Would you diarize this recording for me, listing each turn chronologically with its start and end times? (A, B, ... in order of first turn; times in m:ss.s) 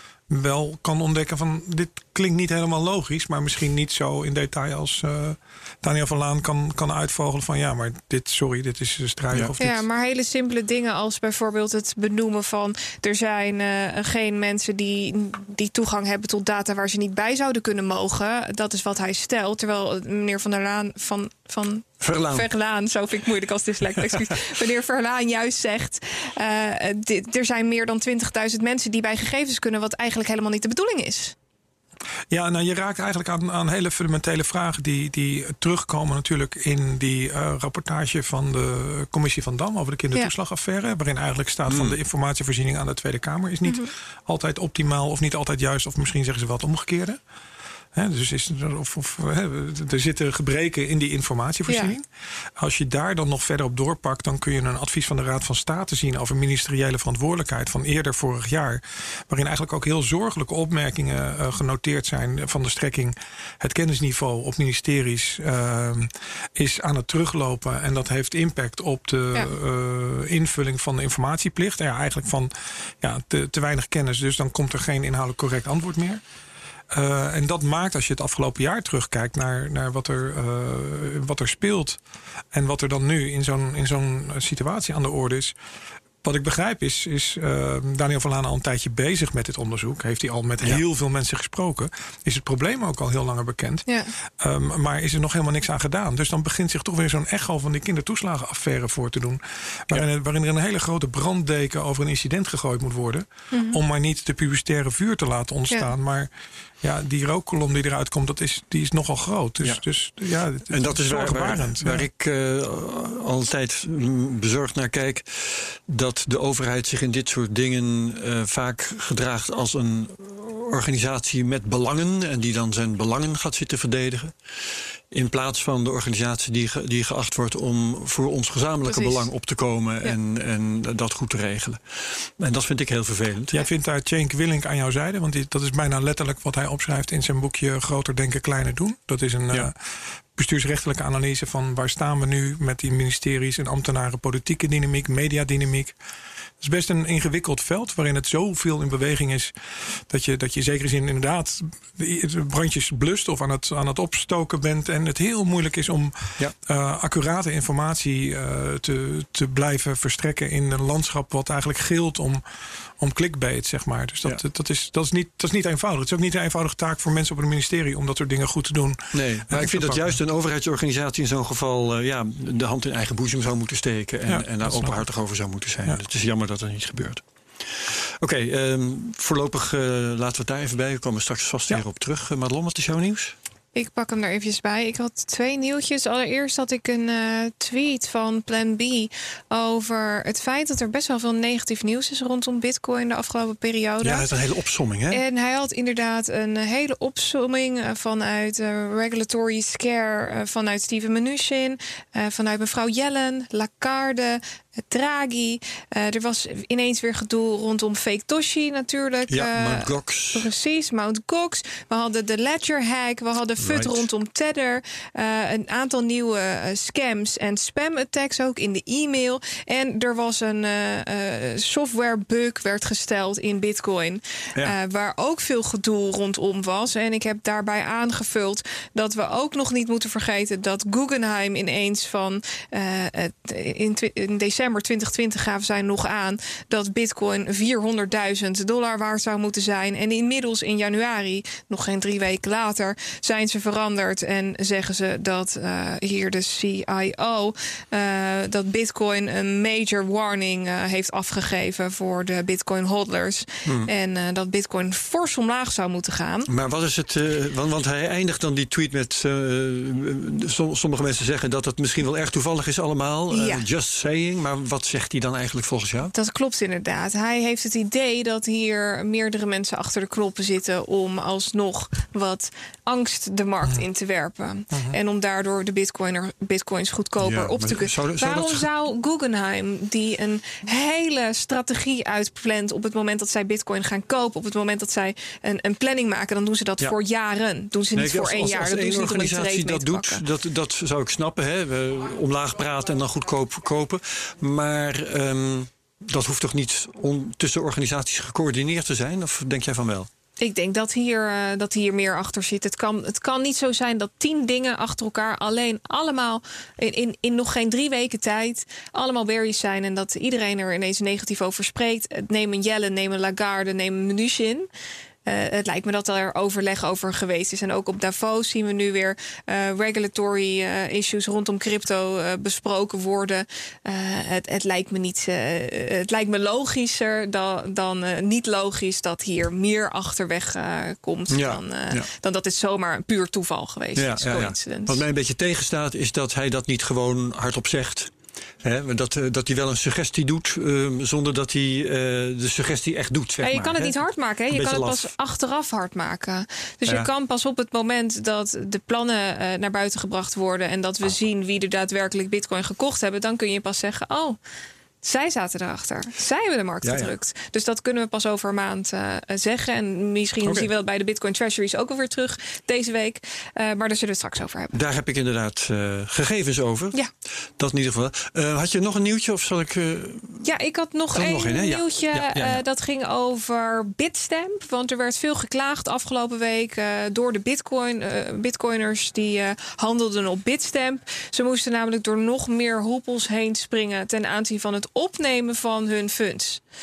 0:00.3-0:09.8 A
0:09.6-0:31.4 B
0:22.0-0:22.5 C
0:32.3-0:47.2 A
0:41.7-0:42.0 C
0:47.9-0:52.1 A
0:52.6-1:16.2 A
1:16.9-1:22.0 A
1:22.5-1:25.6 A
1:26.2-1:33.9 A
1:33.9-1:34.1 B
1:34.4-1:46.3 A
1:43.5-1:43.8 B
1:46.8-1:52.1 A
1:50.7-2:04.4 C
2:05.1-2:13.6 C
2:08.8-2:09.2 B
2:13.5-2:19.8 A
2:20.4-2:26.0 A
2:26.6-2:42.4 A
2:43.0-2:50.2 A
2:49.1-3:03.4 C
2:54.3-2:55.0 A
3:03.8-3:14.3 B
3:14.0-3:15.2 C
3:15.1-4:16.5 B
3:29.3-3:30.5 C
3:33.6-3:34.0 C
4:13.6-4:13.9 C
4:16.5-4:26.1 C
4:23.3-4:23.6 B
4:26.1-4:50.2 B
4:37.2-4:38.7 C
4:48.0-5:00.1 C
5:00.4-5:14.7 B
5:15.2-5:35.0 B
5:31.3-5:32.1 C
5:34.0-5:44.0 C
5:43.4-5:54.4 B
5:44.5-5:45.1 C
5:55.0-6:04.7 B
5:56.8-5:57.1 C
6:00.4-6:00.7 C
6:04.7-6:07.0 C
6:07.6-6:10.5 C
6:10.4-6:26.6 B
6:11.1-6:12.6 C